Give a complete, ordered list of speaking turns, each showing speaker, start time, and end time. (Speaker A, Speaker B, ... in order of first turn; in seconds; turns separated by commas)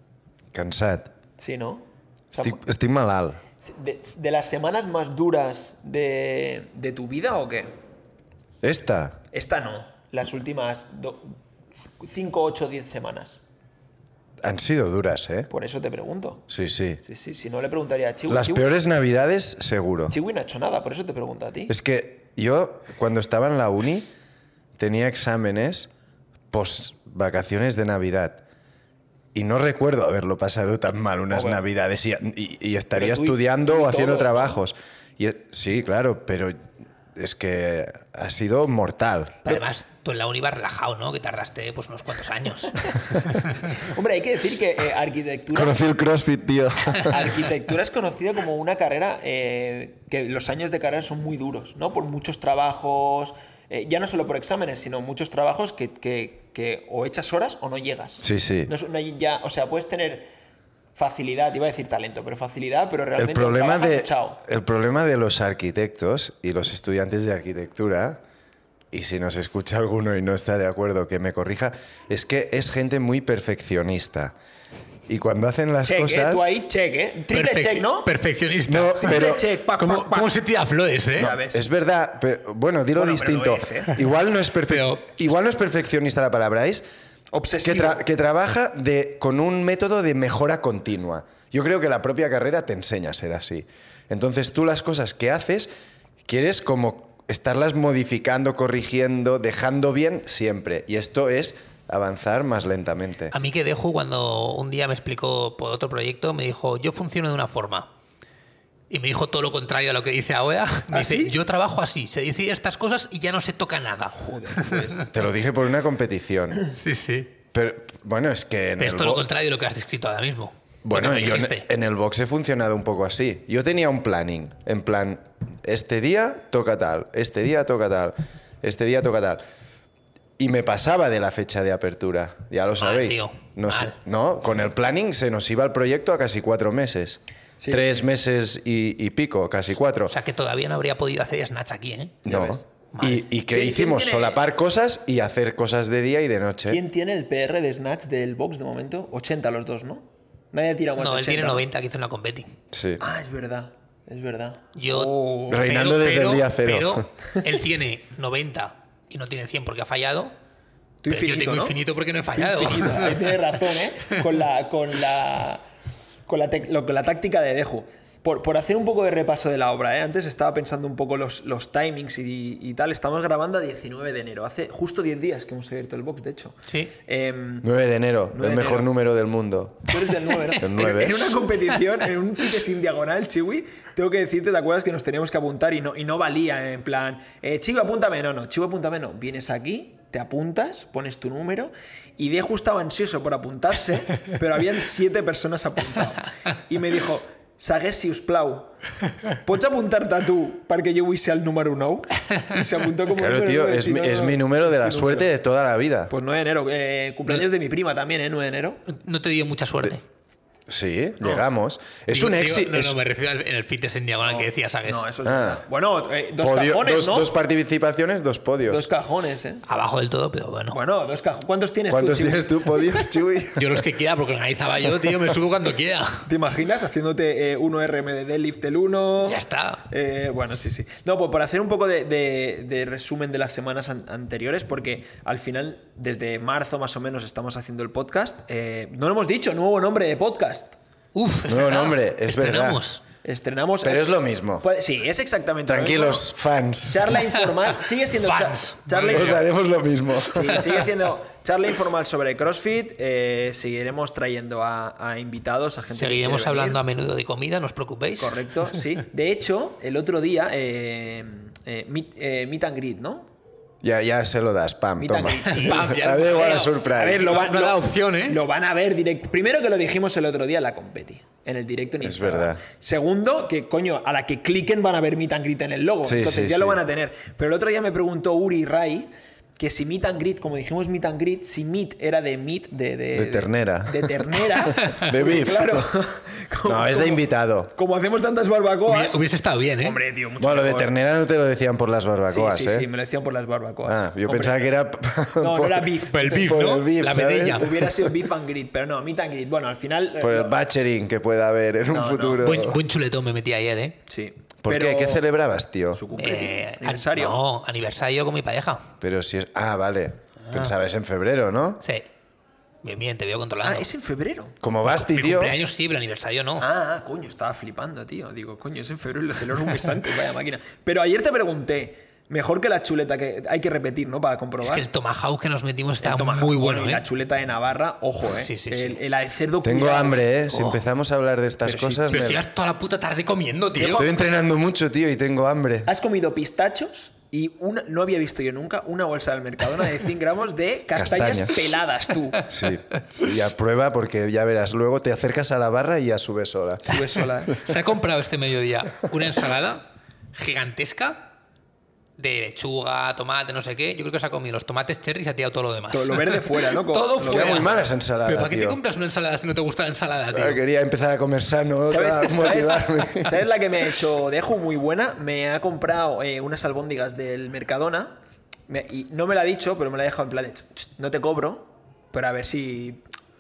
Speaker A: 0.5-1.1, Speaker B: 1.4-2.6, Speaker A: 2.3-3.4, Speaker B: 3.6-7.7, Speaker A: 8.6-9.2, Speaker B: 9.3-11.4, Speaker B: 12.0-13.4, Speaker A: 14.4-15.5, Speaker B: 15.5-16.4, Speaker A: 16.5-17.0, Speaker B: 17.0-18.7, Speaker A: 18.3-20.1, Speaker B: 20.1-21.7, Speaker A: 21.7-24.1, Speaker A: 24.8-25.9, Speaker A: 26.5-28.4, Speaker A: 29.3-36.5, Speaker B: 31.3-31.6, Speaker B: 32.9-34.6, Speaker A: 37.1-39.4, Speaker C: 39.5-43.3, Speaker B: 43.7-45.9, Speaker A: 45.5-47.3, Speaker B: 47.0-60.3, Speaker A: 58.2-58.7, Speaker B: 61.0-64.4, Speaker A: 63.2-68.2, Speaker A: 68.9-74.3, Speaker A: 75.1-76.5, Speaker B: 75.8-78.1, Speaker C: 77.3-81.3, Speaker A: 78.7-79.4, Speaker B: 79.0-80.4, Speaker B: 81.2-81.7, Speaker A: 81.2-86.8, Speaker B: 82.9-84.0, Speaker C: 84.7-85.0, Speaker B: 87.3-88.0, Speaker A: 87.6-95.7, Speaker A: 96.3-103.4, Speaker C: 103.3-107.9, Speaker C: 108.9-115.0, Speaker B: 110.9-111.4, Speaker B: 114.2-115.1, Speaker A: 115.1-116.7, Speaker C: 116.7-117.3, Speaker A: 117.5-119.3, Speaker C: 118.8-121.7, Speaker A: 120.8-129.4, Speaker A: 130.4-140.2, Speaker C: 132.8-133.9, Speaker B: 137.6-138.1, Speaker C: 140.1-142.3, Speaker A: 142.2-146.8, Speaker B: 142.3-142.6, Speaker C: 142.9-143.2, Speaker B: 143.5-144.4, Speaker B: 146.7-151.6, Speaker C: 151.0-152.5, Speaker A: 152.7-153.0, Speaker B: 153.0-155.7, Speaker C: 154.8-160.3, Speaker A: 155.5-157.1, Speaker B: 161.0-161.8, Speaker C: 161.1-163.6, Speaker B: 162.3-165.6, Speaker B: 166.3-177.7, Speaker C: 176.7-176.9, Speaker A: 177.6-179.9, Speaker B: 178.3-178.9, Speaker B: 179.9-198.8, Speaker A: 180.6-181.3, Speaker B: 199.3-205.3, Speaker A: 203.2-206.1, Speaker B: 206.1-208.8, Speaker C: 208.9-210.0, Speaker A: 210.7-213.0, Speaker C: 212.1-215.1, Speaker B: 214.2-217.3, Speaker A: 215.2-215.6, Speaker A: 216.4-218.9, Speaker B: 218.7-219.6, Speaker C: 219.7-220.8, Speaker B: 220.7-223.1, Speaker A: 221.9-223.8, Speaker C: 223.6-226.3, Speaker B: 226.2-240.8, Speaker C: 229.2-229.8, Speaker C: 241.2-243.0, Speaker A: 241.5-242.8, Speaker B: 243.2-246.3, Speaker A: 243.8-244.7, Speaker A: 245.7-247.2, Speaker B: 246.9-249.4, Speaker C: 248.2-249.4, Speaker A: 249.1-250.7, Speaker B: 250.3-256.8, Speaker C: 255.9-258.4, Speaker B: 258.2-263.3, Speaker A: 263.8-267.4, Speaker B: 265.0-287.2, Speaker C: 265.6-268.4, Speaker A: 272.0-272.6, Speaker A: 276.1-276.8, Speaker A: 283.1-285.9, Speaker A: 286.6-287.7, Speaker B: 287.7-289.2, Speaker C: 288.9-290.0, Speaker B: 289.8-290.9, Speaker A: 290.4-292.9, Speaker B: 292.3-294.6, Speaker A: 293.9-297.8, Speaker B: 295.4-296.7, Speaker C: 296.1-297.9, Speaker B: 297.4-300.6, Speaker A: 300.2-302.8, Speaker B: 301.9-302.4, Speaker C: 302.4-304.0, Speaker B: 304.1-305.3, Speaker A: 304.6-306.1, Speaker B: 305.9-307.4, Speaker C: 306.1-308.9, Speaker A: 309.0-311.8, Speaker C: 312.8-313.9, Speaker B: 313.6-314.6, Speaker A: 314.6-315.6, Speaker C: 314.9-316.6, Speaker B: 316.6-324.9, Speaker C: 324.6-327.1, Speaker B: 326.0-330.8, Speaker C: 328.4-329.0, Speaker A: 329.6-332.4, Speaker B: 331.6-332.3, Speaker C: 332.1-334.1, Speaker B: 333.8-334.1, Speaker A: 333.8-335.9, Speaker B: 335.9-342.5, Speaker A: 340.9-341.6, Speaker A: 342.5-347.0, Speaker B: 346.9-347.7, Speaker C: 347.6-351.3, Speaker C: 352.2-360.6, Speaker B: 355.9-357.8, Speaker A: 357.2-358.8, Speaker A: 360.3-363.4, Speaker B: 361.9-368.1, Speaker B: 368.7-373.0